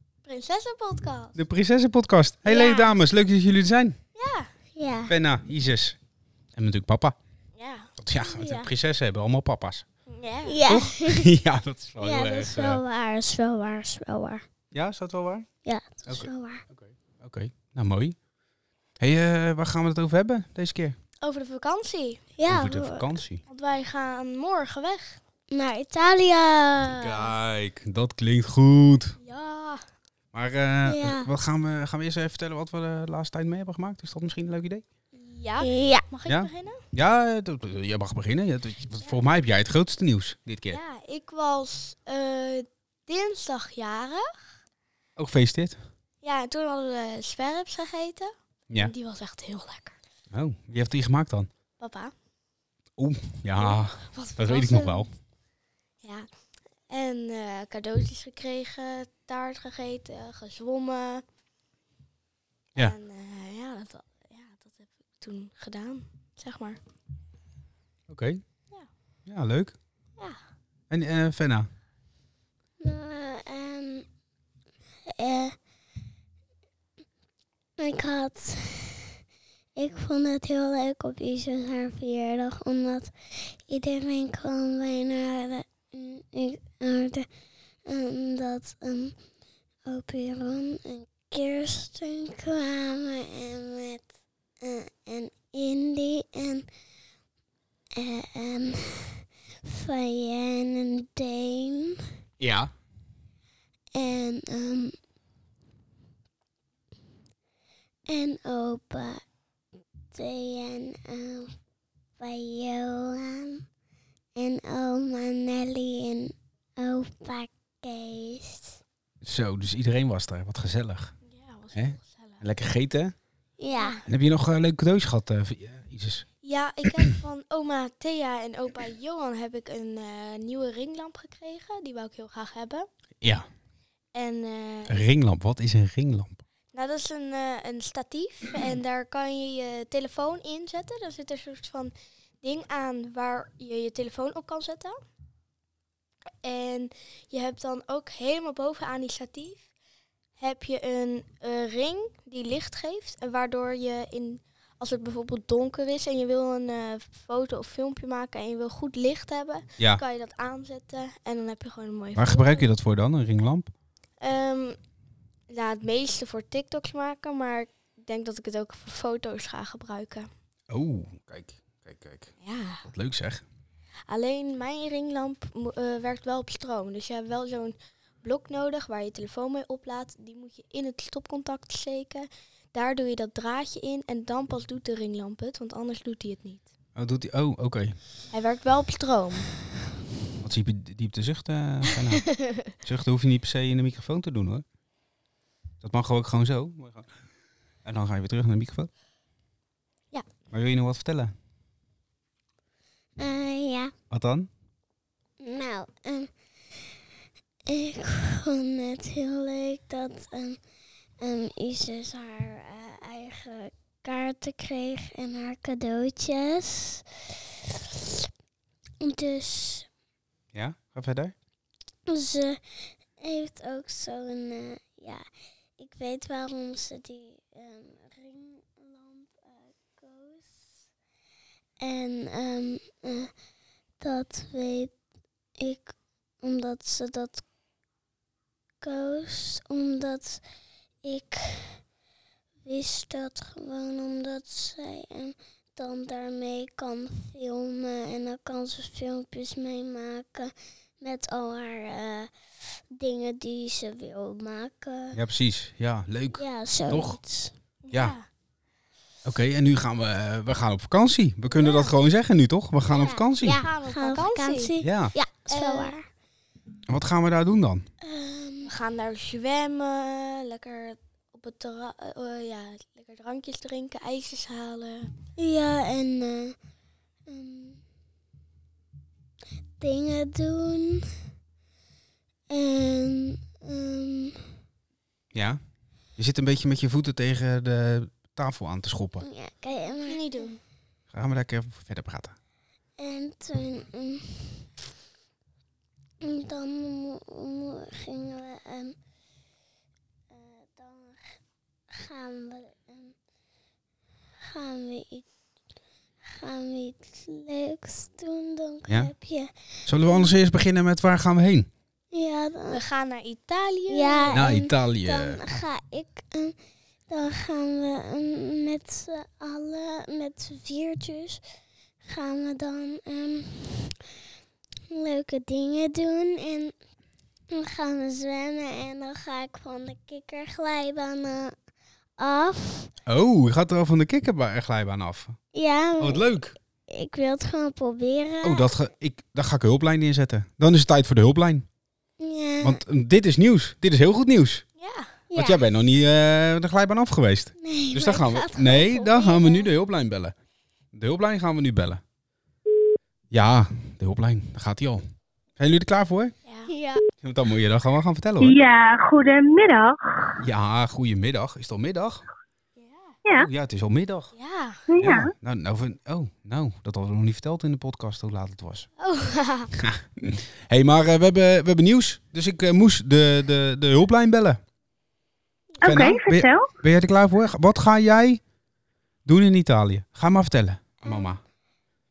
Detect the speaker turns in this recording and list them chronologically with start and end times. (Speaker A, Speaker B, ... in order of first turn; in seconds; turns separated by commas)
Speaker A: 0.2-1.4, Speaker B: 1.3-4.0, Speaker A: 2.5-3.0, Speaker A: 4.2-4.5, Speaker C: 4.8-5.1, Speaker B: 5.1-6.0, Speaker B: 6.5-7.2, Speaker A: 7.6-8.7, Speaker B: 8.0-9.8, Speaker A: 10.1-10.6, Speaker C: 10.4-11.3, Speaker B: 10.7-12.8, Speaker C: 12.0-14.4, Speaker B: 14.7-15.5, Speaker C: 15.6-16.6, Speaker B: 16.1-18.2, Speaker B: 19.0-20.9, Speaker A: 21.2-22.3, Speaker C: 22.4-23.1, Speaker B: 22.4-23.4, Speaker A: 23.4-25.2, Speaker C: 25.5-27.1, Speaker B: 26.9-29.1, Speaker A: 29.2-29.8, Speaker B: 30.3-34.8, Speaker C: 30.8-31.3, Speaker A: 35.1-36.8, Speaker C: 35.6-36.0, Speaker B: 36.2-40.8, Speaker A: 40.7-44.4, Speaker B: 45.1-45.8, Speaker A: 46.2-50.0, Speaker B: 50.3-51.5, Speaker A: 51.8-52.1, Speaker B: 53.0-55.1, Speaker A: 53.6-55.1, Speaker A: 56.0-56.3, Speaker A: 56.9-61.2, Speaker A: 62.8-66.8, Speaker B: 68.1-68.4, Speaker B: 69.2-69.7, Speaker B: 70.9-71.7, Speaker C: 72.8-74.0, Speaker C: 75.1-75.5, Speaker C: 77.8-79.1, Speaker C: 79.8-87.3, Speaker C: 87.8-89.2, Speaker C: 89.8-94.1, Speaker C: 94.6-96.7, Speaker C: 98.0-102.0, Speaker B: 102.4-102.7, Speaker C: 103.9-105.0, Speaker C: 108.1-109.2, Speaker C: 110.1-111.5, Speaker C: 112.2-113.6, Speaker C: 114.3-118.8, Speaker B: 119.2-121.1, Speaker A: 121.2-122.4, Speaker B: 121.7-123.1, Speaker C: 123.6-124.0, Speaker A: 123.7-124.0, Speaker B: 124.0-126.2, Speaker A: 126.4-132.9, Speaker B: 133.2-133.5, Speaker A: 134.1-135.0, Speaker B: 134.9-136.4, Speaker A: 136.7-145.0, Speaker A: 146.4-149.6, Speaker A: 150.4-162.7, Speaker B: 162.2-163.7, Speaker A: 164.2-164.8, Speaker A: 165.5-170.3, Speaker B: 170.7-172.3, Speaker A: 172.4-172.8, Speaker B: 172.8-173.4, Speaker A: 174.1-186.7, Speaker B: 186.9-187.9, Speaker A: 188.3-189.5, Speaker B: 190.4-194.6, Speaker A: 192.3-192.7, Speaker B: 195.8-197.1, Speaker B: 197.8-198.9, Speaker B: 200.5-201.3, Speaker C: 203.2-203.9, Speaker B: 204.1-204.5, Speaker C: 205.4-206.8, Speaker C: 207.7-210.6, Speaker C: 211.2-217.0, Speaker C: 217.7-217.9, Speaker C: 219.0-219.9, Speaker B: 220.5-221.3, Speaker C: 222.1-225.2, Speaker C: 225.8-230.7, Speaker C: 231.8-233.3, Speaker C: 234.0-234.9, Speaker C: 235.6-237.4, Speaker C: 238.8-240.4, Speaker C: 241.0-241.8, Speaker C: 242.6-252.3, Speaker C: 252.9-255.2, Speaker B: 255.1-257.2, Speaker C: 256.3-257.5, Speaker A: 257.9-258.2, Speaker B: 259.2-263.6, Speaker A: 261.5-261.9, Speaker C: 262.9-266.1, Speaker A: 263.5-264.7, Speaker B: 264.8-265.1, Speaker A: 265.5-265.9, Speaker B: 266.9-267.9, Speaker C: 268.0-268.7, Speaker A: 268.6-275.1, Speaker C: 275.4-276.6, Speaker C: 277.3-277.8, Speaker C: 279.8-281.1, Speaker C: 282.5-284.4, Speaker B: 285.3-285.6, Speaker B: 286.2-289.2, Speaker C: 289.2-290.2, Speaker A: 290.0-290.6, Speaker B: 291.1-292.3, Speaker C: 293.0-294.6, Speaker C: 296.2-299.0, Speaker C: 300.3-301.4, Speaker C: 301.9-303.1, Speaker C: 304.4-305.2, Speaker C: 306.3-310.3, Speaker B: 308.9-309.1, Speaker B: 309.9-311.7, Speaker C: 312.1-312.8, Speaker A: 312.7-314.4, Speaker C: 313.9-316.6, Speaker B: 314.3-315.6, Speaker C: 317.1-321.4, Speaker C: 322.0-324.0, Speaker C: 324.9-326.7, Speaker C: 327.5-331.5, Speaker C: 332.2-332.9, Speaker B: 333.1-335.4, Speaker C: 335.5-336.3, Speaker B: 336.0-336.5, Speaker C: 336.9-338.7, Speaker B: 338.4-341.6, Speaker C: 342.2-342.8, Speaker B: 342.6-344.6, Speaker A: 344.8-345.1, Speaker C: 345.3-345.6, Speaker B: 345.3-350.3, Speaker C: 347.6-349.6, Speaker B: 350.9-352.0, Speaker B: 353.3-355.0, Speaker B: 355.6-356.3, Speaker A: 356.4-356.7, Speaker C: 356.7-357.0, Speaker B: 357.2-358.6, Speaker D: 358.4-360.4, Speaker B: 360.4-362.2, Speaker A: 362.8-363.1, Speaker B: 363.3-364.3, Speaker A: 364.4-364.8, Speaker D: 364.9-365.3, Speaker B: 365.0-368.9, Speaker A: 369.0-369.7, Speaker B: 369.7-374.6, Speaker D: 375.8-376.7, Speaker B: 375.8-378.4, Speaker B: 379.2-381.4, Speaker C: 381.0-381.4